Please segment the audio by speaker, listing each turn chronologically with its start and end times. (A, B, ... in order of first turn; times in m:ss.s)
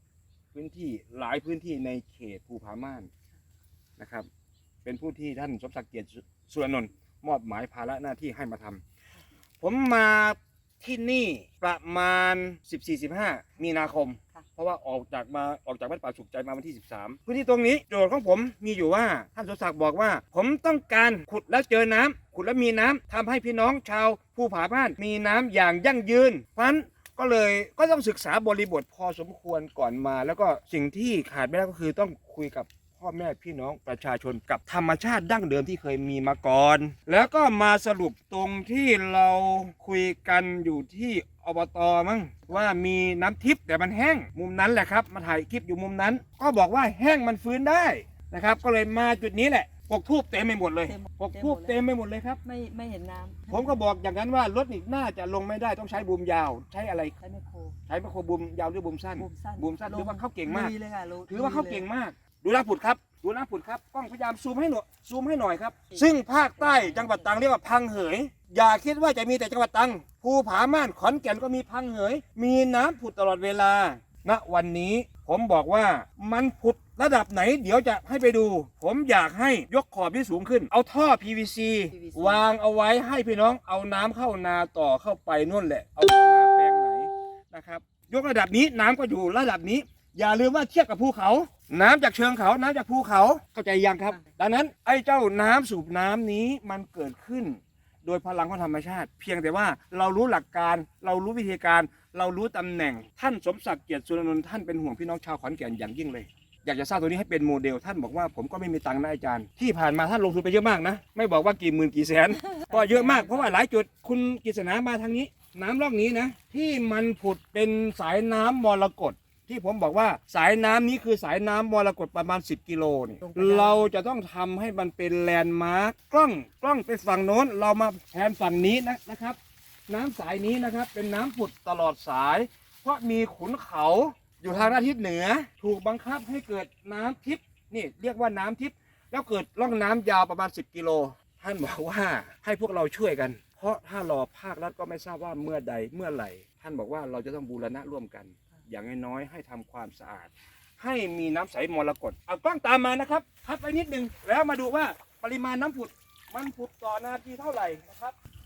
0:00.5-0:03.1 A
0:04.0-0:04.3 A
0:04.8-0:08.8 A
0:09.6-0:52.4 A
0:50.9-0:51.8 B
0:52.4-0:53.8 B
0:53.5-0:57.2 A
0:57.2-0:57.8 B
0:57.9-1:00.7 A
0:59.2-1:01.8 B
1:01.3-2:38.2 A
1:05.9-1:07.3 B
1:21.9-1:22.4 B
1:52.6-1:53.6 B
2:03.2-2:03.9 B